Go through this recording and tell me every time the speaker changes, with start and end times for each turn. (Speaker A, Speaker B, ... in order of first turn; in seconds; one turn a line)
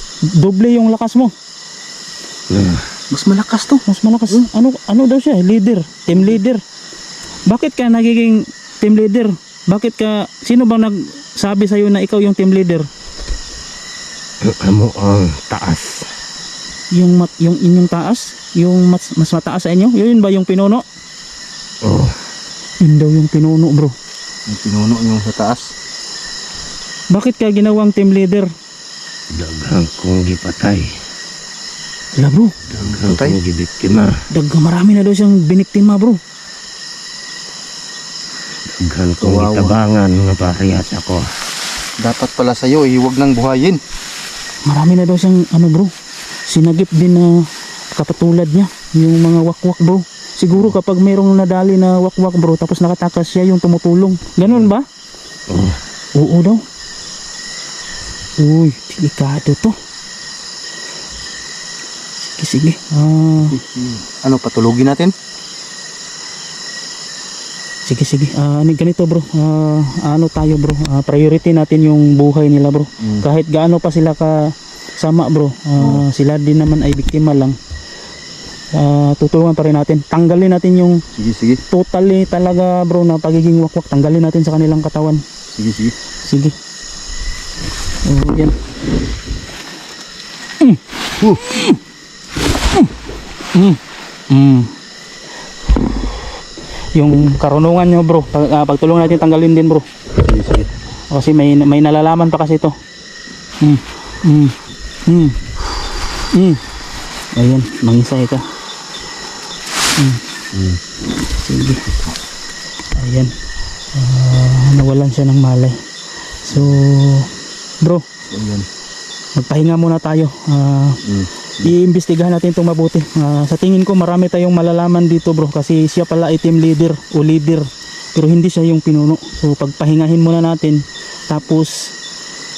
Speaker A: 0.4-1.3
Speaker B: 2.5-2.8
Speaker C: 3.1-4.5
Speaker A: 3.9-6.6
Speaker A: 7.5-12.9
Speaker B: 14.4-16.1
Speaker A: 16.9-20.8
Speaker B: 21.8-22.1
Speaker A: 22.8-23.9
Speaker C: 24.5-25.7
Speaker A: 27.1-28.5
Speaker B: 29.3-30.9
Speaker A: 32.1-32.5
Speaker B: 32.7-34.2
Speaker C: 32.7-33.4
Speaker A: 34.3-36.2
Speaker B: 38.7-41.3
Speaker C: 39.2-39.7
Speaker C: 42.0-43.8
Speaker A: 44.6-45.9
Speaker A: 46.5-54.8
Speaker C: 54.4-54.7
Speaker B: 55.5-55.8
Speaker A: 56.1-56.6
Speaker A: 58.4-59.7
Speaker A: 62.4-63.5
Speaker C: 63.4-65.1
Speaker A: 67.8-77.5
Speaker C: 75.8-76.0
Speaker A: 78.8-81.0
Speaker C: 81.1-81.6
Speaker A: 81.7-85.2
Speaker C: 85.5-85.9
Speaker A: 86.3-86.5
Speaker A: 88.0-88.5
Speaker A: 90.6-91.8
Speaker A: 93.5-94.7
Speaker A: 96.9-99.8
Speaker C: 100.2-100.7
Speaker A: 101.1-102.7
Speaker A: 103.6-105.4
Speaker A: 106.3-106.6
Speaker A: 107.3-108.4
Speaker C: 110.5-110.8
Speaker A: 111.4-111.8
Speaker A: 113.0-113.3
Speaker A: 113.9-115.8
Speaker A: 116.4-117.3
Speaker C: 118.3-118.7
Speaker A: 119.3-121.0
Speaker C: 121.0-121.7
Speaker A: 121.6-131.9